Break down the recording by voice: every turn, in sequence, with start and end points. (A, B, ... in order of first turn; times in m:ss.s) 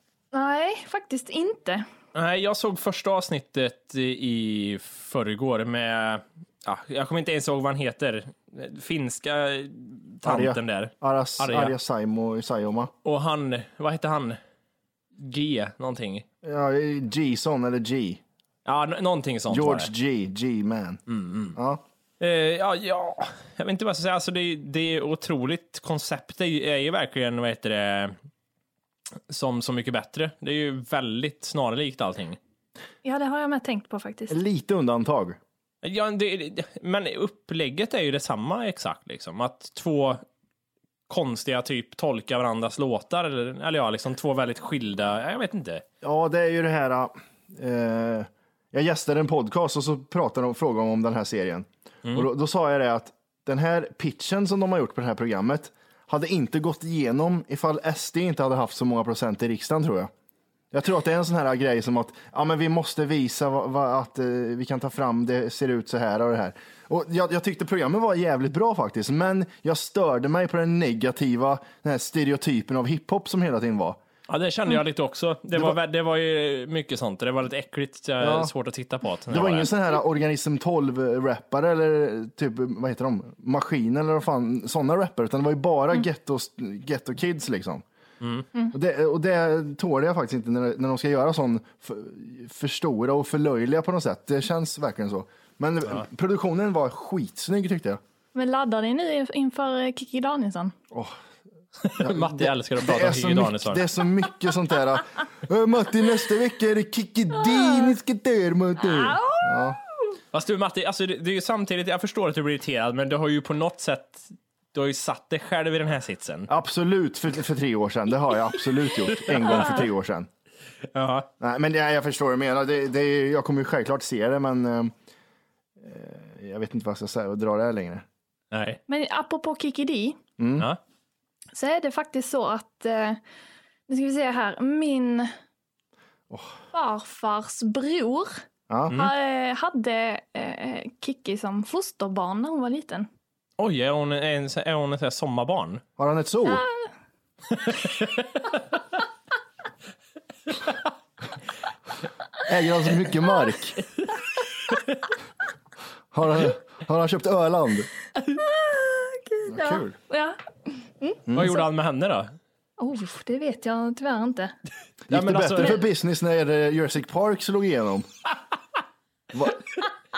0:00.3-0:01.8 A
0:02.1-0:11.7 B
0:10.2-0:12.9 C
0:13.0-0:14.4 B
0:15.2-0:16.2 B
0:16.4-0:18.2 C
0:18.6-0:19.9 B
0:19.5-0:21.0 C
0:21.1-0:21.6 B
0:21.5-0:21.8 C
0:22.2-0:28.1 B
0:29.3-0:32.4 B
0:33.0-0:34.4 A
0:34.3-0:35.4 C
0:35.8-0:40.2 B
0:41.1-0:45.8 B
0:46.0-1:00.1 C
1:00.7-1:14.0 C
1:14.3-1:19.7 B
1:18.2-1:18.5 C
1:19.3-1:27.8 C
1:28.7-1:38.0 C
1:38.3-1:40.7 A
1:40.9-1:41.2 C
1:41.8-1:43.8 B
1:42.0-1:49.8 C
1:47.6-1:47.9 A
1:48.8-1:50.1 A
1:50.3-1:56.5 B
1:56.5-2:00.3 C
1:59.2-1:59.7 B
1:59.5-1:59.8 A
2:00.9-2:01.3 B
2:01.4-2:04.9 C
2:05.8-2:08.0 C
2:08.5-2:08.8 B
2:08.9-2:10.2 A
2:10.4-2:10.7 C
2:11.5-2:13.2 A
2:13.9-2:15.3 A
2:16.3-2:16.6 C
2:16.7-2:18.4 A
2:18.7-2:18.9 C
2:18.9-2:23.1 A
2:23.6-2:25.8 B
2:26.0-2:26.6 C
2:26.5-2:26.8 A
2:27.6-2:28.2 B
2:32.4-2:33.8 C
2:36.1-2:37.9 C
2:38.2-2:41.2 A
2:39.5-2:40.0 C
2:41.3-2:41.5 C
2:41.3-2:42.3 B
2:42.8-2:44.5 A
2:45.1-2:48.1 C
2:45.1-2:45.8 B
2:49.3-2:49.6 C